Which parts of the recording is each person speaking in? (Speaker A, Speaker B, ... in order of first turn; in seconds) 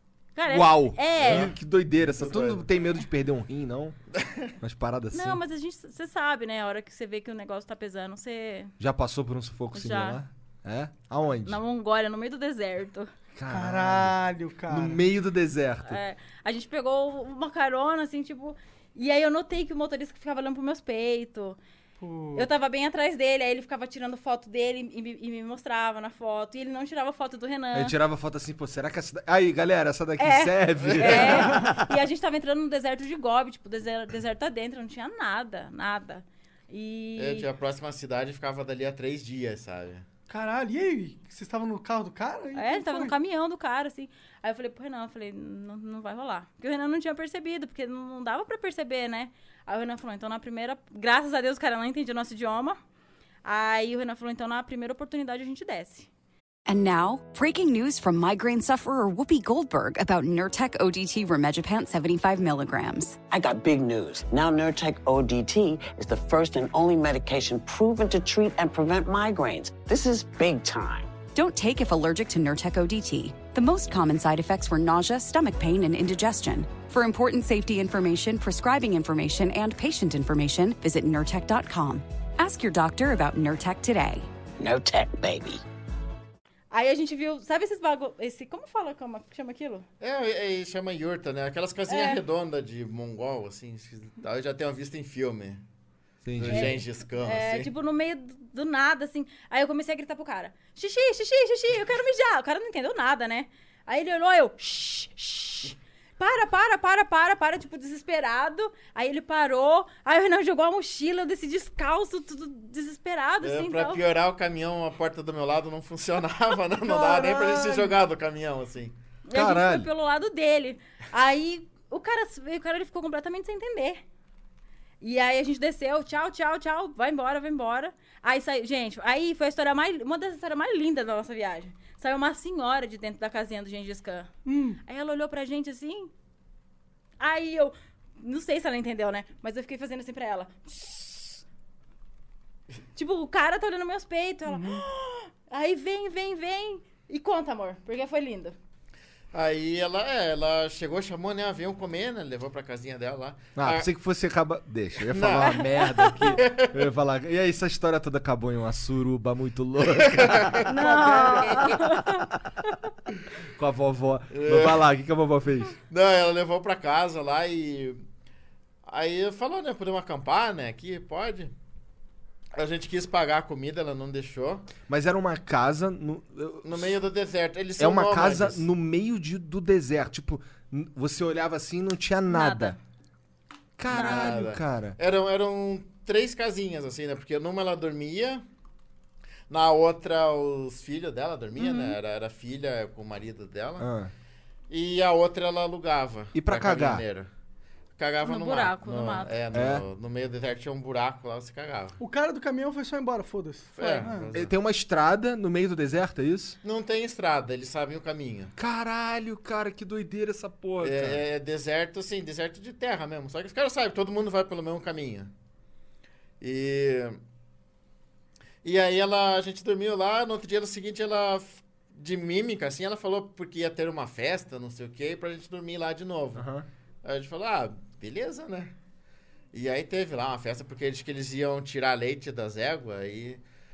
Speaker A: 0.3-1.5, 5.1-8.7, 9.7-10.2, 11.4-13.1, 15.8-21.6, 22.4-28.0, 30.2-37.5, 42.5-52.8, 53.4-56.1, 86.7-89.9, 91.9-92.2, 96.4-114.0, 119.3-124.0, 125.0-134.3, 134.8-136.1, 137.2-141.4, 142.9-148.6, 155.8-156.4, 160.7-162.3, 182.3-182.8, 183.9-184.4, 191.6-192.0, 198.2-199.4
Speaker B: 0.5-4.0, 4.6-5.4, 8.8-11.6, 13.3-14.2, 14.7-16.0, 27.7-32.0, 96.2-96.8, 119.3-119.9, 153.6-160.7, 163.6-165.8, 174.9-177.0, 177.8-182.8, 183.8-185.0, 193.8-194.1, 196.3-197.1, 199.5-199.9, 204.3-206.6, 208.6-211.2, 226.3-226.7
Speaker C: 1.2-2.7, 30.8-31.5, 37.2-40.0, 90.0-95.6, 96.4-97.7, 113.4-119.0, 149.3-153.9, 155.1-156.8, 160.0-161.8, 164.3-164.8, 165.9-168.0, 168.9-171.5, 172.5-174.7, 176.6-178.6, 183.9-188.4, 189.5-193.9, 194.7-197.3, 198.0-202.0, 203.8-204.5, 206.6-208.5, 210.8-215.3, 216.4-217.2, 218.6-226.5, 227.0-228.7, 229.5-233.4
Speaker D: 13.5-15.0, 22.0-22.5, 40.3-43.1, 116.9-117.9, 134.5-134.8, 144.5-144.8, 202.0-204.3
Speaker E: 56.7-63.2, 71.3-84.3
Speaker F: 63.3-71.1, 84.6-85.6